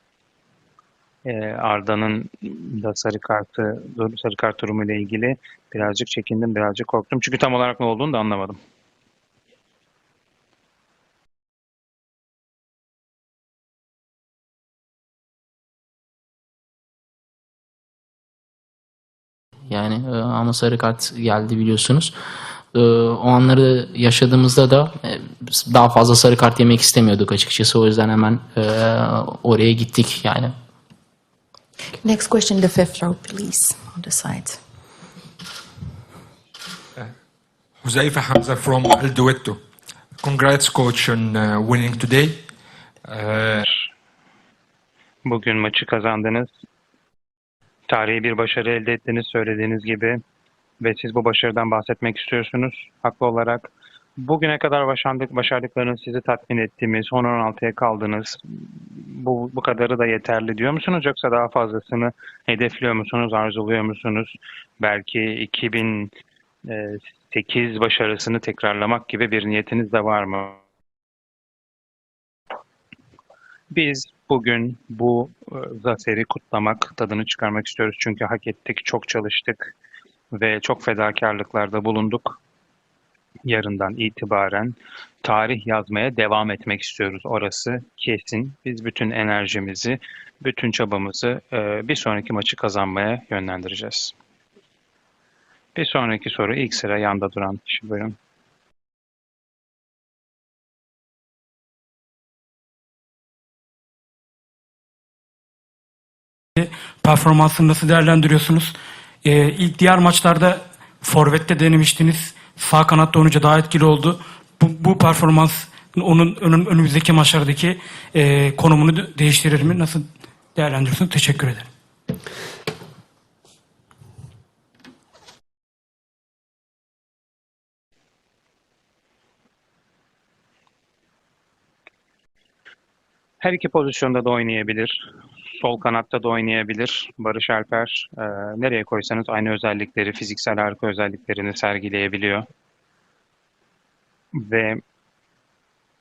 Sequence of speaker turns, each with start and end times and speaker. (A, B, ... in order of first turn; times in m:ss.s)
0:01.2-0:08.6 A
0:19.7-0:22.1 B
0:22.7-0:30.5 B
0:32.0-0:34.6 C
0:37.8-0:39.6 D
0:40.2-0:42.4 D
0:43.0-0:43.6 D
0:45.2-0:46.5 A
0:47.9-0:50.2 A
0:50.8-1:06.1 A
1:06.6-1:10.6 A
1:13.7-1:19.7 A
1:20.3-1:22.4 A
1:23.4-1:34.1 A
1:35.7-1:38.2 A
1:46.6-2:01.7 E
2:13.4-2:22.4 A
2:24.3-2:24.8 A